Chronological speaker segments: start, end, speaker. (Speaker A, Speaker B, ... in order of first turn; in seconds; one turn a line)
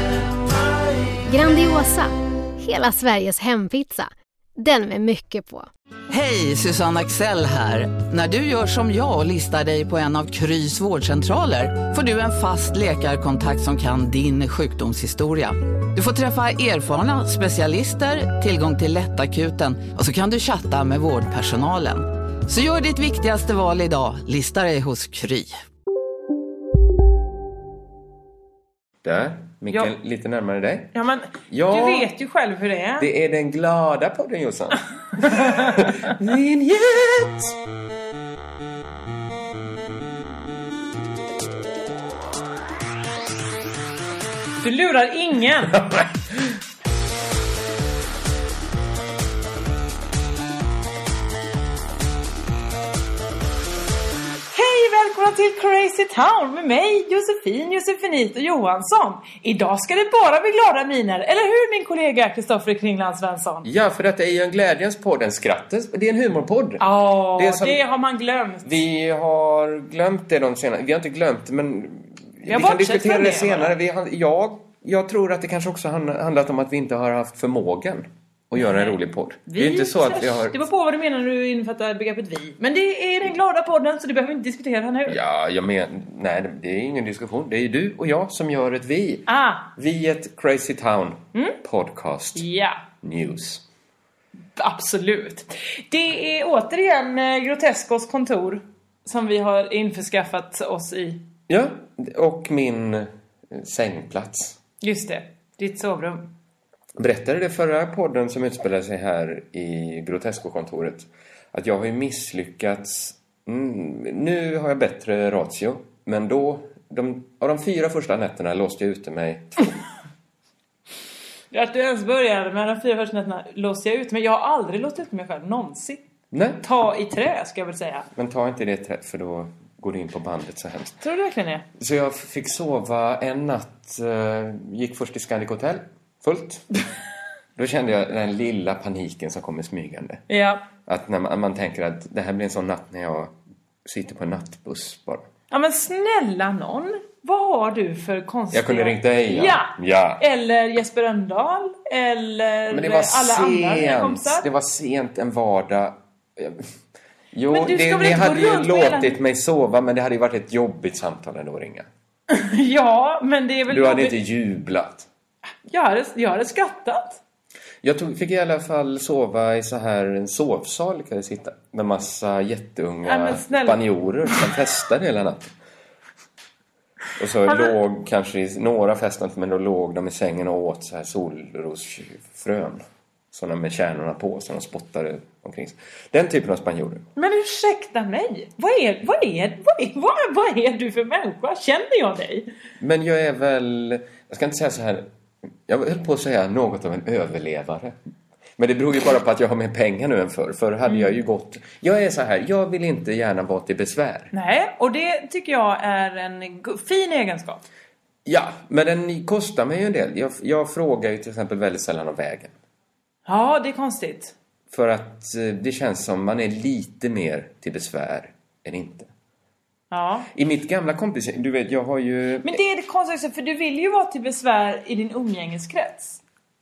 Speaker A: 1.3-5.7
Speaker B: 6.1-25.5
Speaker C: 29.0-30.9
Speaker D: 30.9-33.1
Speaker C: 31.5-32.1
Speaker C: 33.0-37.5
Speaker D: 35.3-35.8
Speaker D: 44.6-45.8
Speaker C: 45.8-46.1
Speaker D: 54.5-63.7
Speaker C: 63.6-67.8
Speaker D: 66.8-68.7
Speaker C: 68.6-80.6
Speaker D: 72.4-73.7
Speaker D: 78.5-85.2
Speaker C: 85.0-92.5
Speaker D: 89.3-89.7
Speaker D: 92.3-92.8
Speaker C: 93.0-93.6
Speaker D: 94.6-101.2
Speaker C: 101.5-104.6
Speaker D: 104.8-106.3
Speaker C: 107.0-119.7
Speaker D: 121.5-126.0
Speaker C: 126.3-126.6
Speaker D: 126.6-128.1
Speaker C: 128.1-131.0
Speaker D: 131.0-131.7
Speaker C: 131.8-136.7
Speaker C: 137.6-140.2
Speaker D: 140.3-140.6
Speaker C: 140.8-143.3
Speaker C: 143.8-145.2
Speaker D: 145.5-154.4
Speaker C: 148.5-150.2
Speaker C: 152.7-156.6
Speaker C: 157.3-161.9
Speaker D: 157.5-159.1
Speaker D: 162.3-164.2
Speaker C: 163.7-165.1
Speaker D: 165.7-167.2
Speaker C: 167.8-175.5
Speaker D: 173.0-173.8
Speaker C: 177.2-187.0
Speaker D: 177.5-177.7
Speaker D: 187.2-192.5
Speaker C: 192.8-195.1
Speaker C: 195.7-197.9
Speaker C: 198.6-204.3
Speaker D: 200.9-201.1
Speaker D: 204.3-207.6
Speaker C: 208.2-212.5
Speaker D: 213.3-214.3
Speaker C: 214.7-219.1
Speaker D: 219.9-220.3
Speaker C: 220.3-222.6
Speaker D: 222.4-226.2